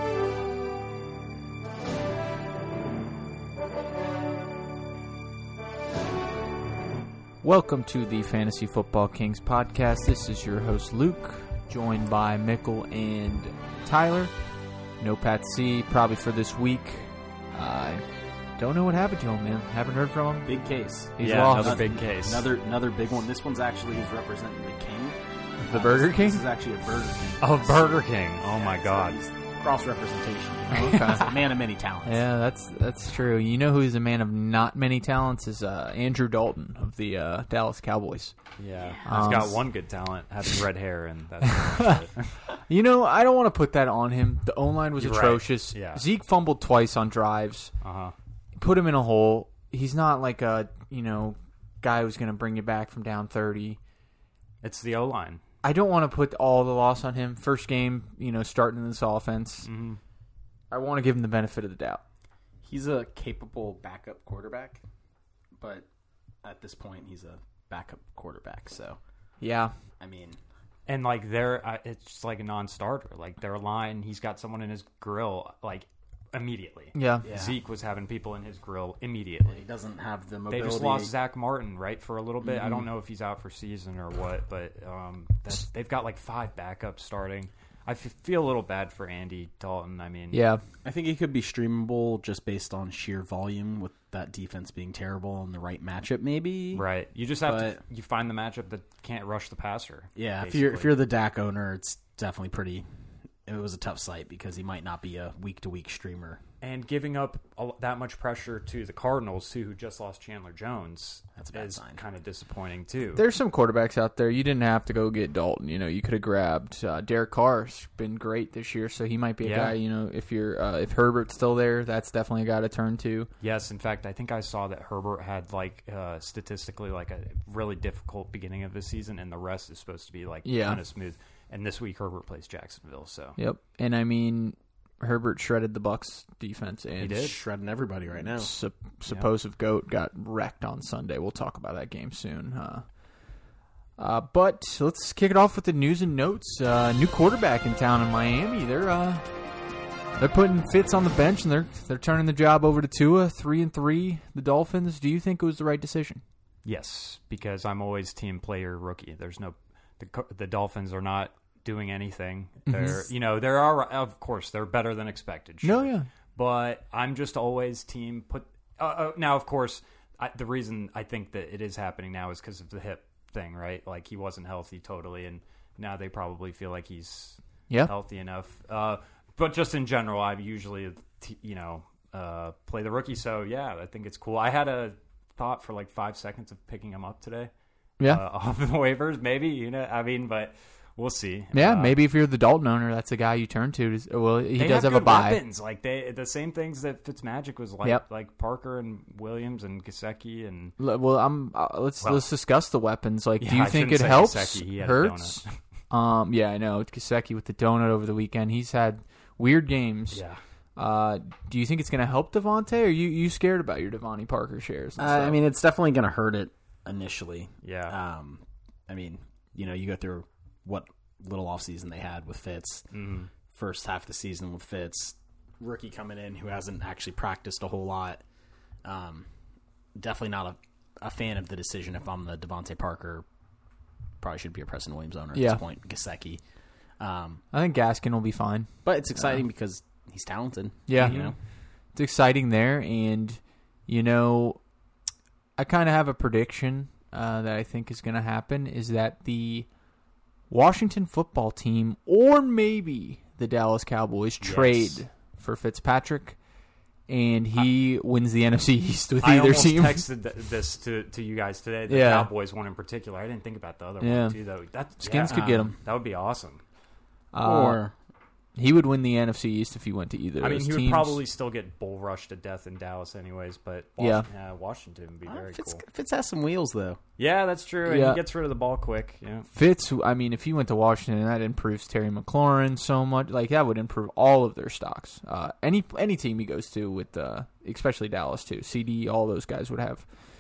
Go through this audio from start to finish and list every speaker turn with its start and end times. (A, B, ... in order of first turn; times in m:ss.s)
0:07.4-0:14.3 A
0:15.0-0:18.0 A
0:18.6-0:20.5 A
0:20.4-0:32.2 B
0:21.2-0:22.0 A
0:21.2-0:22.5 C
0:25.6-0:26.4 A
0:27.4-0:29.2 C
0:30.7-0:31.3 A
0:32.0-0:38.3 A
0:38.6-0:42.4 C
0:39.0-0:39.6 A
0:41.4-0:42.0 A
0:42.5-0:47.7 A
0:45.0-0:46.0 C
0:47.8-0:48.1 C
0:48.6-0:53.8 A
0:54.6-0:55.4 C
0:55.6-0:59.7 A
0:59.6-1:00.0 C
1:00.7-1:02.0 A
1:02.6-1:04.8 B
1:05.6-1:05.8 B
1:06.4-1:09.0 B
1:09.4-1:09.7 A
1:10.0-1:10.4 B
1:10.9-1:19.6 C
1:16.9-1:17.2 A
1:17.2-1:17.6 B
1:19.5-1:21.1 B
1:20.5-1:30.4 C
1:22.4-1:22.8 B
1:30.3-1:30.6 A
1:30.8-1:36.8 B
1:36.7-1:41.0 C
1:37.4-1:37.8 B
1:40.2-1:42.8 B
1:43.4-1:46.4 B
1:46.6-1:53.2 C
1:51.4-1:52.0 B
1:53.2-2:03.3 A
1:59.4-1:59.7 C
2:03.4-2:13.4 C
2:10.4-2:10.8 A
2:13.4-2:17.3 A
2:17.0-2:17.3 C
2:17.1-2:18.5 B
2:18.3-2:22.8 A
2:24.0-2:29.2 A
2:30.2-2:36.2 A
2:36.6-3:07.5 C
2:42.7-2:43.0 A
2:45.6-2:46.0 A
3:08.0-3:12.0 C
3:11.5-3:15.4 A
3:14.6-3:20.7 C
3:20.8-3:30.2 A
3:22.0-3:22.2 C
3:23.4-3:25.5 C
3:30.1-3:30.4 C
3:30.8-3:35.4 A
3:35.0-3:42.9 B
3:37.6-3:38.0 C
3:42.9-3:43.3 C
3:43.5-3:48.2 B
3:48.8-3:49.3 B
3:50.0-3:53.2 B
3:54.2-3:56.4 B
3:55.3-3:55.6 A
3:57.0-3:57.4 B
3:57.5-3:59.4 A
3:58.8-4:01.3 B
4:00.9-4:01.2 A
4:00.9-4:01.3 C
4:01.9-4:04.6 A
4:05.6-4:09.7 A
4:10.5-4:16.4 A
4:14.4-4:15.0 C
4:17.1-4:20.0 A
4:19.2-4:26.6 C
4:21.9-4:22.3 A
4:24.0-4:24.4 A
4:25.0-4:25.8 A
4:25.2-4:25.8 B
4:27.3-4:27.8 A
4:27.4-4:27.9 B
4:28.6-4:31.2 A
4:30.4-4:35.8 C
4:34.0-4:34.3 A
4:35.2-4:37.0 B
4:37.2-4:39.5 C
4:37.8-4:38.2 A
4:39.5-4:50.0 A